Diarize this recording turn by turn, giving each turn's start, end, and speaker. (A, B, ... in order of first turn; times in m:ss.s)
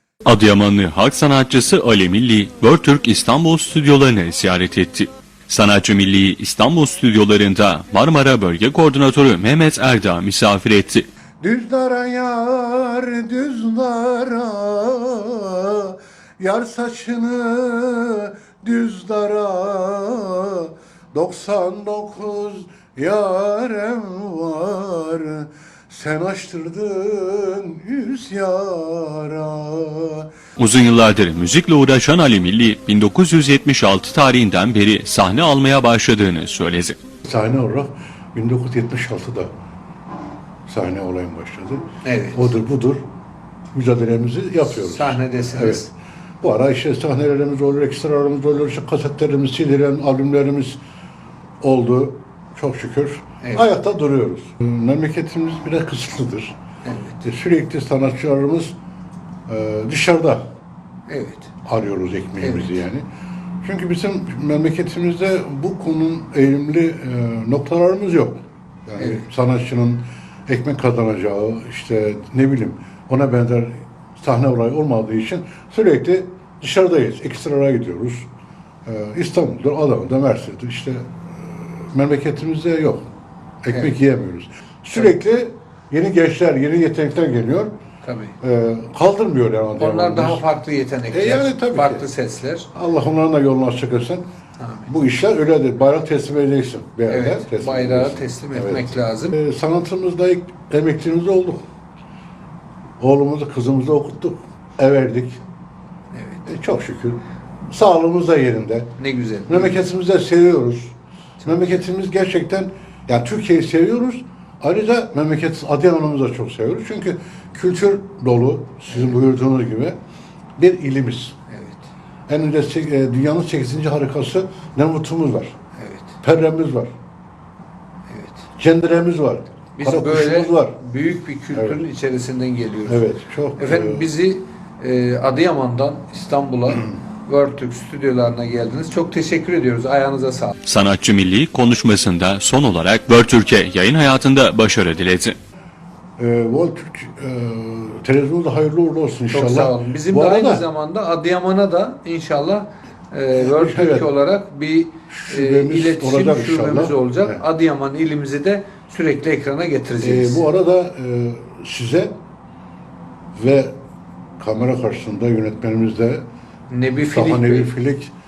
0:00.2-0:11.0 A
0:11.4-0:30.3 B
0:30.6-0:37.0 A
0:37.2-0:39.5 B
0:40.7-0:43.0 B
0:42.0-0:42.5 C
0:43.7-0:45.9 B
0:44.6-0:45.9 C
0:46.4-0:50.8 B
0:51.6-0:56.5 B
0:53.4-0:53.7 C
0:56.8-0:57.2 C
0:57.2-0:58.7 B
0:59.5-1:00.4 B
1:01.1-1:01.5 C
1:01.6-1:03.0 B
1:02.4-1:02.7 C
1:03.6-1:18.3 B
1:09.0-1:09.2 C
1:18.8-1:23.1 B
1:23.6-1:27.7 B
1:23.7-1:24.0 C
1:28.0-1:28.3 C
1:28.4-1:30.4 B
1:29.8-1:32.7 C
1:31.1-1:32.1 B
1:32.7-1:34.2 B
1:34.6-1:34.9 C
1:34.9-1:41.6 B
1:37.1-1:39.3 C
1:43.0-1:45.4 B
1:46.1-1:46.5 C
1:46.4-1:47.2 B
1:47.7-1:48.9 B
1:49.0-1:49.8 C
1:49.5-1:50.9 B
1:51.4-1:51.8 C
1:51.4-2:00.0 B
2:00.6-2:01.3 B
2:01.5-2:01.8 C
2:02.3-2:05.5 B
2:05.8-2:06.2 C
2:06.2-2:06.9 B
2:08.1-2:08.4 C
2:08.6-2:10.8 B
2:09.8-2:20.5 C
2:11.5-2:11.8 B
2:12.9-2:14.1 B
2:20.6-2:25.4 A
2:26.2-2:30.6 B
2:29.3-2:40.4 C
2:33.3-2:34.1 B
2:35.1-2:37.4 B
2:40.0-2:42.1 B
2:43.3-2:43.7 B
2:44.4-2:46.2 B
2:46.7-2:47.7 C
2:47.1-2:48.1 B